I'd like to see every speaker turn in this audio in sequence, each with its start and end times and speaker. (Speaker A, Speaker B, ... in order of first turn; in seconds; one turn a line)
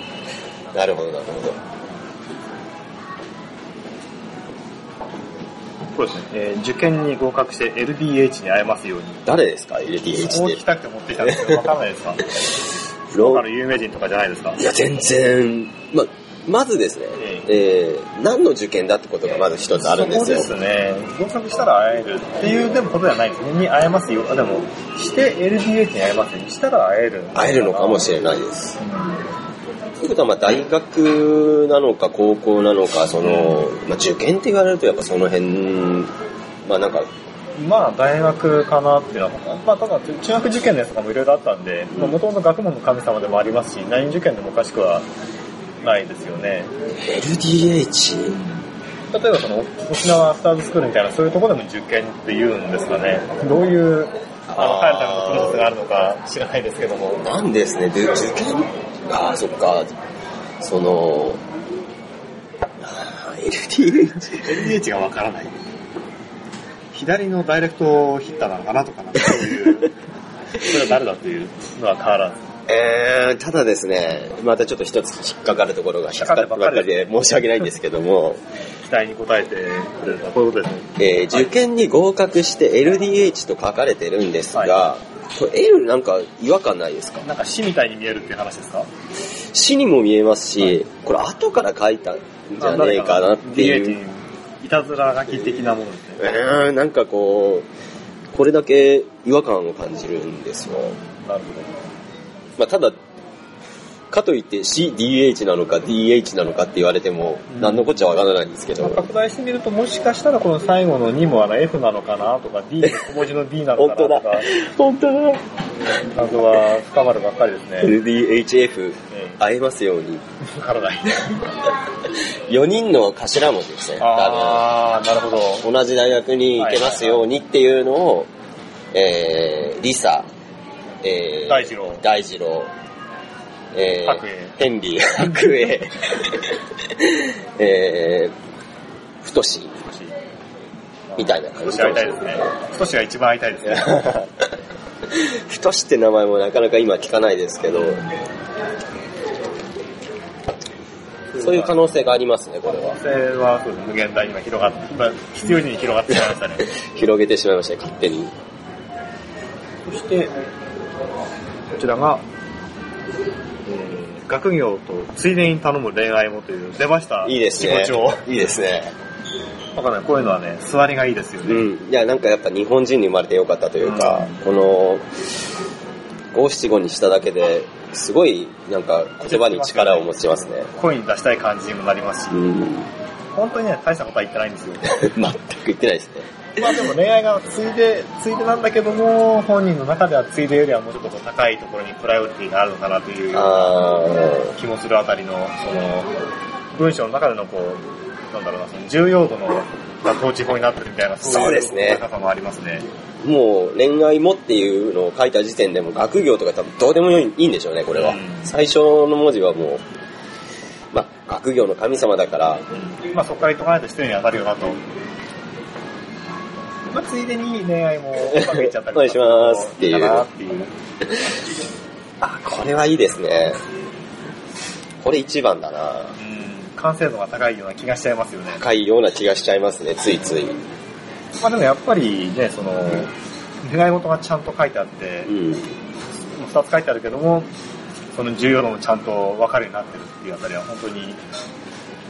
Speaker A: 0.7-1.6
Speaker B: 5.9-9.2
Speaker A: 9.2-10.6
Speaker B: 10.1-12.4
Speaker A: 11.2-11.7
Speaker A: 13.1-13.4
Speaker B: 13.1-14.6
Speaker A: 14.6-20.5
Speaker B: 17.1-17.5
Speaker B: 19.7-28.1
Speaker A: 27.3-28.8
Speaker B: 28.8-29.2
Speaker A: 30.0-36.1
Speaker B: 33.2-33.6
Speaker A: 36.6-37.1
Speaker B: 37.5-45.0
Speaker B: 45.8-46.7
Speaker A: 47.0-48.4
Speaker B: 49.1-57.3
Speaker A: 54.5-55.7
Speaker A: 57.2-59.9
Speaker A: 60.6-61.4
Speaker A: 62.8-64.6
Speaker B: 64.4-65.6
Speaker B: 66.9-69.9
Speaker B: 70.6-72.4
Speaker A: 72.7-78.4
Speaker B: 76.1-77.3
Speaker B: 78.8-81.5
Speaker A: 81.0-87.2
Speaker B: 84.5-84.8
Speaker B: 87.2-88.9
Speaker A: 89.5-94.0
Speaker B: 92.6-96.3
Speaker A: 96.2-97.7
Speaker A: 98.3-101.0
Speaker B: 101.2-101.8
Speaker A: 102.6-103.0
Speaker A: 104.1-109.0
Speaker B: 107.5-107.8
Speaker B: 108.8-114.5
Speaker A: 113.8-115.4
Speaker B: 116.0-118.0
Speaker A: 117.8-120.2
Speaker B: 119.1-119.4
Speaker B: 120.4-121.4
Speaker A: 122.1-124.7
Speaker B: 124.0-125.7
Speaker A: 125.6-128.3
Speaker B: 126.6-127.2
Speaker A: 128.9-130.3
Speaker A: 131.0-132.7
Speaker B: 131.4-132.0
Speaker A: 133.7-138.3
Speaker B: 134.0-134.6
Speaker A: 139.2-139.8
Speaker B: 139.8-140.1
Speaker B: 141.1-144.1
Speaker A: 141.2-142.4
Speaker A: 143.6-144.3
Speaker A: 145.1-148.0
Speaker B: 151.3-151.8
Speaker A: 151.4-153.0
Speaker B: 152.7-156.7
Speaker A: 156.7-158.3
Speaker B: 159.8-160.3
Speaker B: 161.8-162.2
Speaker B: 163.7-168.2
Speaker A: 167.2-168.9
Speaker B: 169.7-171.7
Speaker A: 171.4-175.0
Speaker B: 173.8-174.4
Speaker A: 176.3-180.7
Speaker B: 179.2-182.5
Speaker A: 182.3-182.9
Speaker B: 183.3-185.0
Speaker A: 184.9-186.3
Speaker B: 186.6-196.1
Speaker A: 193.3-194.5
Speaker B: 196.7-202.8
Speaker A: 201.2-202.0
Speaker A: 203.2-209.8
Speaker B: 207.9-208.5
Speaker A: 210.9-212.6
Speaker B: 212.8-214.8
Speaker B: 216.9-220.7
Speaker A: 218.2-220.2
Speaker A: 222.2-223.6
Speaker A: 225.0-226.2
Speaker B: 226.2-228.6
Speaker A: 228.6-230.6
Speaker B: 231.4-235.3
Speaker A: 235.3-235.7
Speaker B: 236.3-237.5
Speaker B: 238.1-241.2